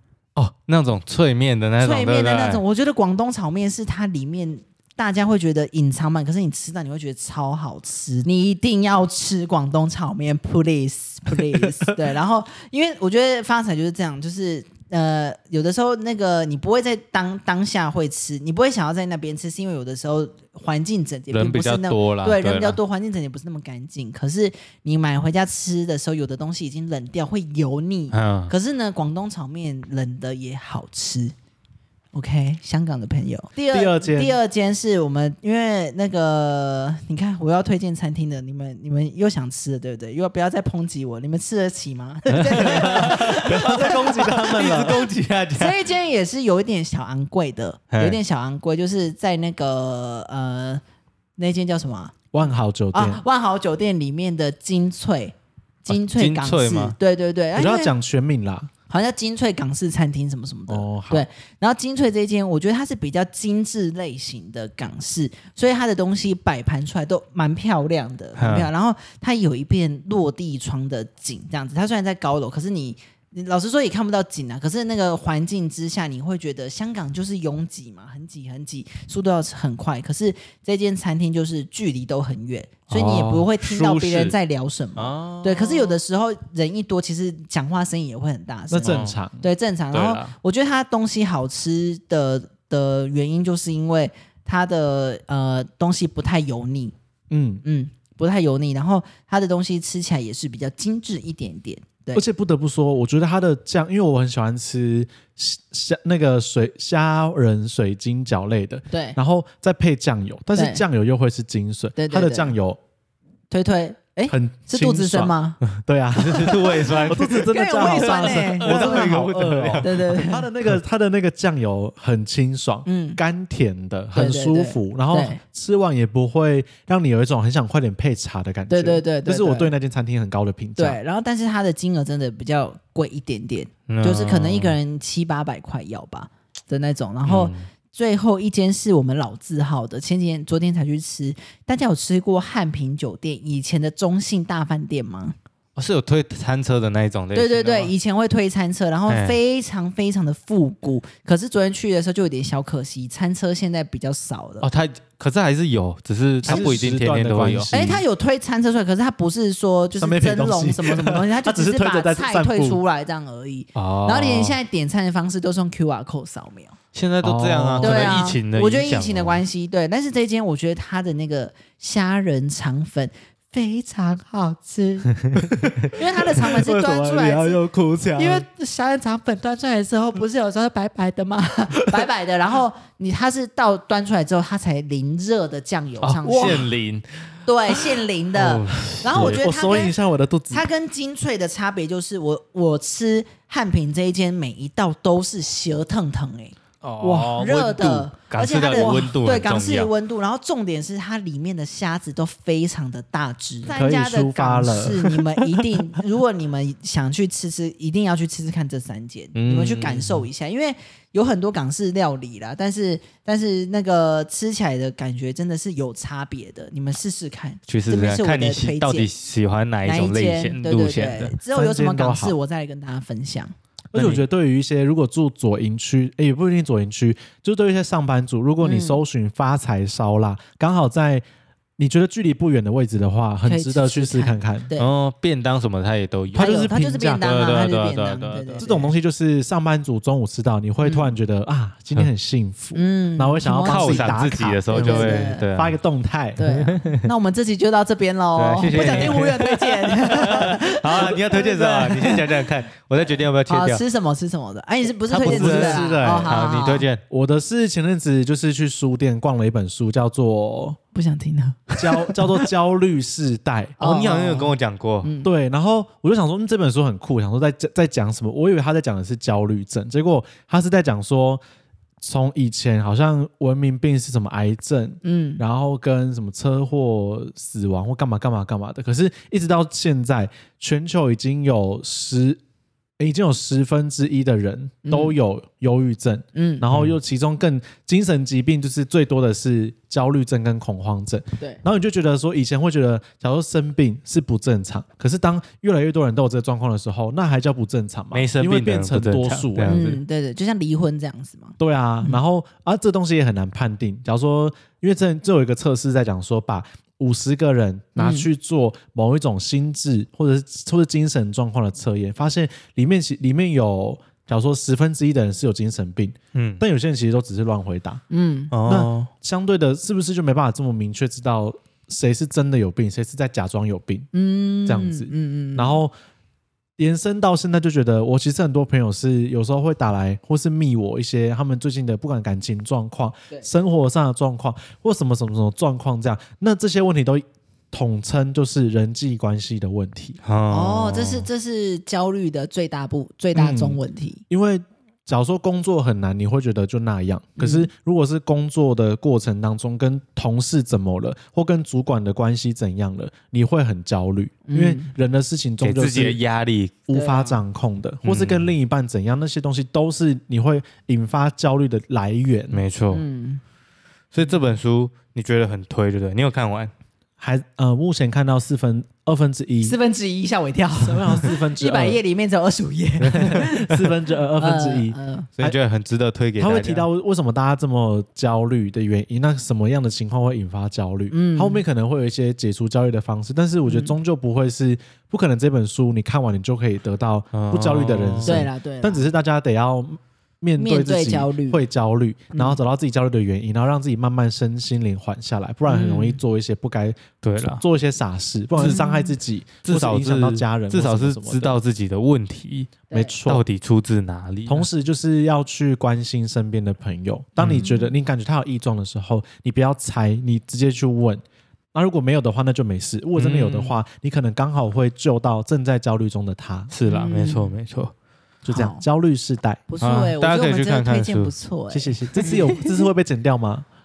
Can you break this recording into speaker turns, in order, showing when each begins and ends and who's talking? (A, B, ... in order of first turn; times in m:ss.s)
0:00.4-0:02.6 A
0:01.8-0:31.3 B
0:21.3-0:22.8 A
0:28.1-0:28.5 A
0:32.1-0:50.8 B
0:33.7-0:34.3 C
0:42.3-0:45.0 C
0:42.3-0:45.8 A
0:47.9-0:48.2 A
0:51.4-0:52.1 B
0:52.3-0:53.2 C
0:52.9-0:57.9 B
0:55.9-0:57.0 A
0:57.5-0:58.7 C
0:58.9-1:36.9 B
1:00.7-1:01.2 C
1:08.4-1:08.7 A
1:22.9-1:23.4 C
1:22.9-1:24.4 A
1:25.0-1:26.0 A
1:28.7-1:29.4 C
1:28.8-1:29.2 A
1:29.9-1:30.3 A
1:37.3-1:37.6 C
1:37.6-1:42.2 B
1:42.1-1:52.8 C
1:48.9-1:49.2 B
1:50.5-1:50.8 B
1:52.0-1:52.5 B
1:53.5-1:55.6 B
1:54.3-1:55.3 C
1:55.8-2:00.0 A
1:55.8-2:11.0 C
1:56.9-1:59.2 B
1:59.8-2:00.5 B
2:02.8-2:03.2 B
2:04.1-2:05.4 B
2:08.7-2:09.7 B
2:10.8-2:25.3 B
2:13.9-2:14.8 A
2:17.2-2:17.7 A
2:25.8-2:27.9 A
2:27.3-2:34.6 B
2:29.1-2:29.4 A
2:34.6-2:37.7 A
2:36.4-2:38.0 C
2:36.4-2:36.8 B
2:37.7-2:46.7 B
2:40.0-2:42.8 C
2:43.7-2:44.6 A
2:46.9-2:49.4 A
2:47.2-2:48.2 C
2:47.8-2:55.1 B
2:55.4-2:58.4 C
2:55.9-2:57.6 B
2:58.2-3:06.7 B
3:06.0-3:07.8 A
3:06.4-3:06.6 C
3:07.4-3:10.0 B
3:08.3-3:09.4 A
3:09.0-3:10.6 C
3:10.5-3:39.1 B
3:16.8-3:19.9 A
3:23.7-3:25.1 C
3:29.3-3:30.2 A
3:37.7-3:41.4 A
3:39.8-3:43.5 B
3:41.5-3:42.4 C
3:43.9-3:51.2 C
3:43.9-3:44.2 A
3:48.6-3:49.0 B
3:51.8-3:54.7 C
3:53.4-3:54.9 B
3:54.8-3:58.6 A
3:56.3-3:57.2 C
3:56.3-3:58.9 B
3:58.6-4:06.4 C
4:00.8-4:01.2 B
4:02.7-4:05.4 B
4:03.6-4:05.8 A
4:06.4-4:12.4 B
4:06.4-4:07.1 A
4:08.4-4:13.8 A
4:13.1-4:16.9 B
4:15.1-4:16.4 C
4:15.1-4:17.0 A
4:17.1-4:20.8 C
4:20.9-4:22.4 B
4:21.8-4:23.8 C
4:23.8-4:25.1 A
4:23.8-4:24.5 B
4:25.0-4:25.3 B
4:25.2-4:31.4 C
4:32.0-4:42.4 C
4:35.0-4:35.4 B
4:43.0-4:59.8 C
4:44.8-4:45.2 B
4:46.3-4:46.6 B
4:46.7-4:47.0 A
4:58.1-5:00.0 A
4:59.6-5:02.2 B
5:01.6-5:18.0 C
5:08.0-5:08.3 B
5:16.3-5:16.6 A
5:18.1-5:18.5 B
5:18.5-5:19.1 A
5:18.6-5:24.1 C
5:24.1-5:25.8 B
5:24.6-5:25.9 C
5:26.8-5:40.2 C
5:40.2-5:41.3 A
5:40.5-5:44.2 B
5:43.3-5:43.8 C
5:44.3-5:56.2 C
5:47.4-5:47.7 B
5:54.4-5:54.9 B
5:55.6-5:56.8 A
5:56.9-6:02.6 C
5:56.9-5:57.4 B
5:58.0-5:58.5 A
6:02.5-6:03.0 A
6:02.9-6:03.4 B
6:04.1-6:06.7 A
6:07.2-6:09.7 C
6:09.6-6:13.8 B
6:10.8-6:12.0 C
6:13.1-6:15.6 C
6:14.4-6:15.3 B
6:15.4-6:16.9 A
6:16.4-6:41.5 C
6:21.1-6:21.6 B
6:23.6-6:24.0 B
6:27.3-6:28.4 A
6:28.2-6:29.1 B
6:30.6-6:31.6 B
6:32.3-6:32.6 B
6:35.6-6:36.2 B
6:37.2-6:37.6 A
6:38.6-6:39.2 B
6:39.6-6:42.7 A
6:42.9-6:43.2 B
6:42.9-6:43.4 C
6:43.3-6:44.7 A
6:44.4-6:51.2 C
6:47.4-6:47.7 A
6:51.7-6:56.7 C
6:53.2-6:53.8 A
6:56.7-6:57.9 A
6:56.9-6:57.6 B
6:58.4-6:59.6 C
6:58.5-6:58.8 B
6:59.7-7:02.8 B
6:59.8-7:01.3 A
7:01.7-7:03.6 C